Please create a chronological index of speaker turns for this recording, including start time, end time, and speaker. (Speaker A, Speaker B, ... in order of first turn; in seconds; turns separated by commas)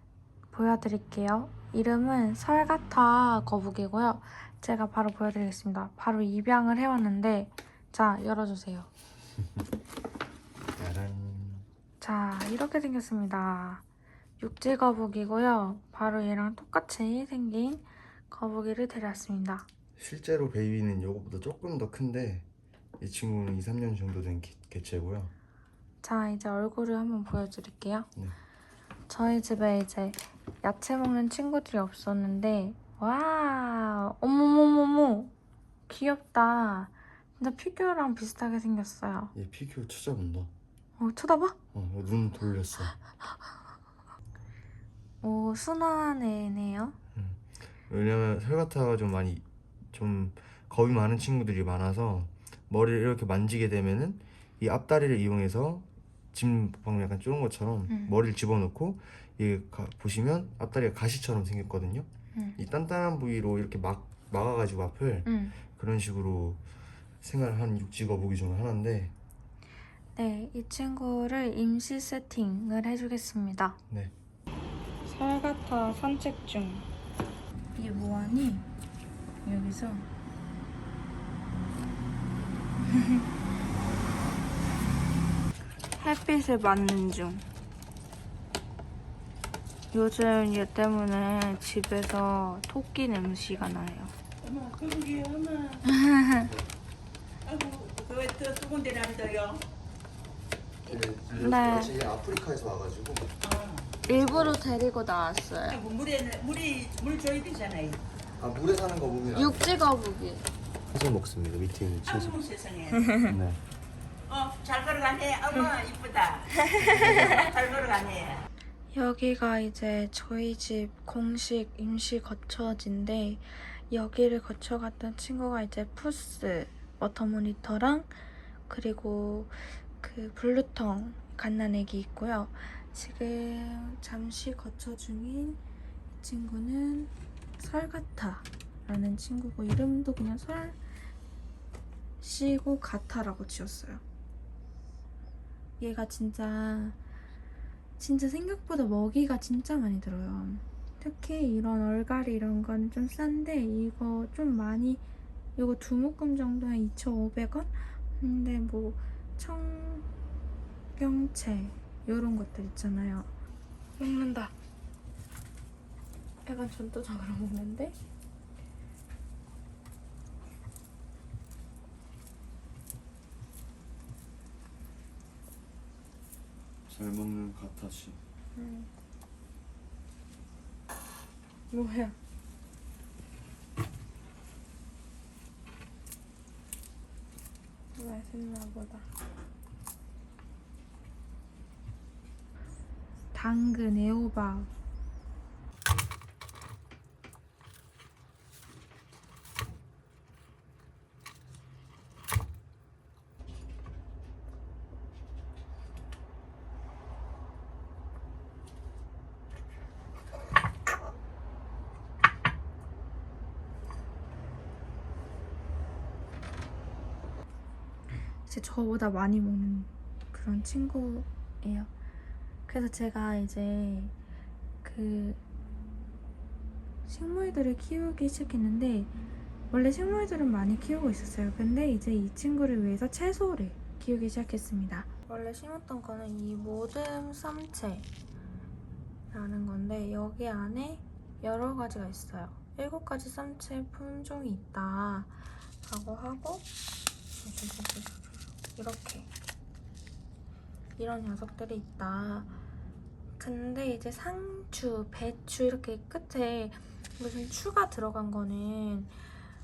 Speaker A: 0.5-8.9, Speaker B: 10.7-11.7, Speaker A: 12.0-13.8, Speaker A: 14.4-19.7, Speaker B: 20.0-22.4, Speaker B: 23.0-25.3, Speaker A: 26.0-28.1, Speaker A: 29.1-35.3, Speaker A: 35.9-39.3, Speaker B: 39.3-40.5, Speaker A: 41.0-41.6, Speaker B: 41.7-42.9, Speaker A: 45.2-47.0, Speaker B: 47.1-66.6, Speaker A: 57.9-58.2, Speaker A: 65.2-65.6, Speaker B: 67.2-69.1, Speaker A: 70.1-73.8, Speaker A: 75.0-76.9, Speaker A: 77.7-78.7, Speaker A: 79.4-80.1, Speaker A: 82.9-83.2, Speaker A: 86.0-87.5, Speaker A: 89.9-94.1, Speaker C: 94.4-95.8, Speaker A: 95.8-96.5, Speaker C: 97.5-99.6, Speaker B: 100.8-103.3, Speaker A: 101.3-101.9, Speaker C: 103.4-103.9, Speaker B: 104.0-104.8, Speaker A: 104.1-105.8, Speaker C: 105.7-108.0, Speaker B: 108.4-109.6, Speaker A: 109.3-110.5, Speaker B: 110.9-112.4, Speaker C: 112.0-113.2, Speaker B: 113.3-113.6, Speaker C: 114.3-118.4, Speaker A: 116.7-117.2, Speaker A: 118.9-128.1, Speaker A: 128.7-135.6, Speaker A: 136.2-140.8, Speaker A: 142.2-144.0, Speaker A: 145.8-147.0, Speaker A: 148.0-155.0, Speaker A: 155.6-160.1, Speaker A: 160.9-163.3, Speaker A: 164.0-164.5, Speaker A: 166.4-168.0, Speaker B: 176.9-178.2, Speaker A: 178.5-178.9, Speaker A: 181.7-182.2, Speaker A: 187.9-189.1, Speaker A: 193.3-194.7, Speaker A: 218.4-221.9, Speaker A: 222.7-224.1, Speaker A: 224.8-225.4, Speaker A: 227.0-229.1, Speaker A: 229.7-238.1, Speaker A: 239.3-246.7, Speaker A: 247.4-248.2, Speaker A: 248.7-249.3, Speaker A: 251.0-252.5, Speaker A: 253.4-259.1